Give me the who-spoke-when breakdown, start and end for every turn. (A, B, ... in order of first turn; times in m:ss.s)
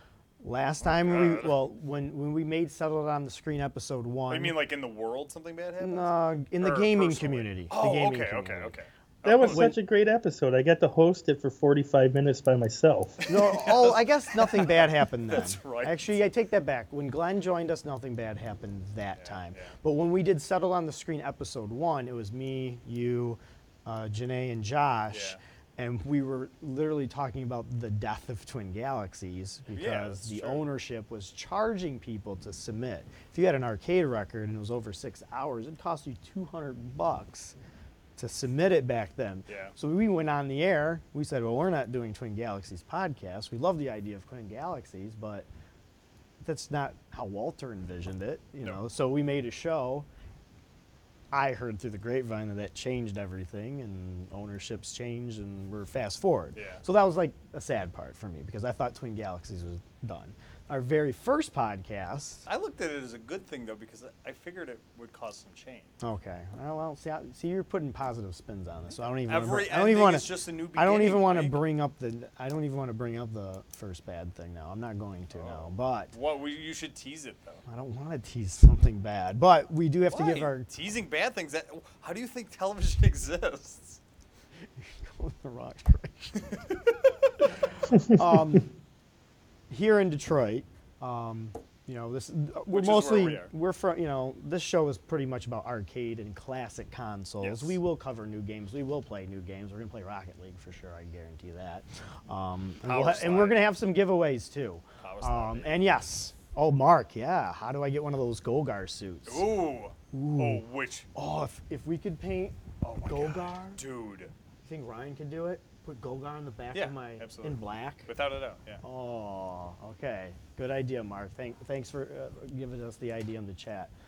0:00.4-0:04.6 A
0:00.8-0:01.6 B
0:04.3-0:09.7 B
0:05.8-0:08.7 A
0:09.2-0:13.2 C
0:09.4-0:09.8 A
0:13.2-0:16.2 B
0:13.3-0:37.5 A
0:19.2-0:19.7 B
0:25.1-0:25.4 B
0:29.7-0:30.6 B
0:38.2-0:45.5 A
0:39.5-0:39.7 B
0:46.4-0:50.0 A
0:51.3-1:02.4 A
0:56.6-0:56.8 B
1:02.4-1:06.0 B
1:06.0-1:16.1 A
1:09.2-1:11.6 B
1:15.3-1:17.6 B
1:17.7-1:20.7 A
1:20.1-1:24.0 B
1:24.8-1:26.6 A
1:27.4-1:28.7 A
1:29.7-1:49.5 A
1:32.7-1:33.5 B
1:37.4-1:37.8 B
1:42.8-1:43.6 B
1:45.0-1:45.8 B
1:49.2-1:51.1 B
1:50.1-1:50.6 A
1:51.1-1:53.8 A
1:52.8-1:54.3 B
1:54.6-1:58.1 A
1:56.7-1:58.8 B
1:58.8-2:03.9 A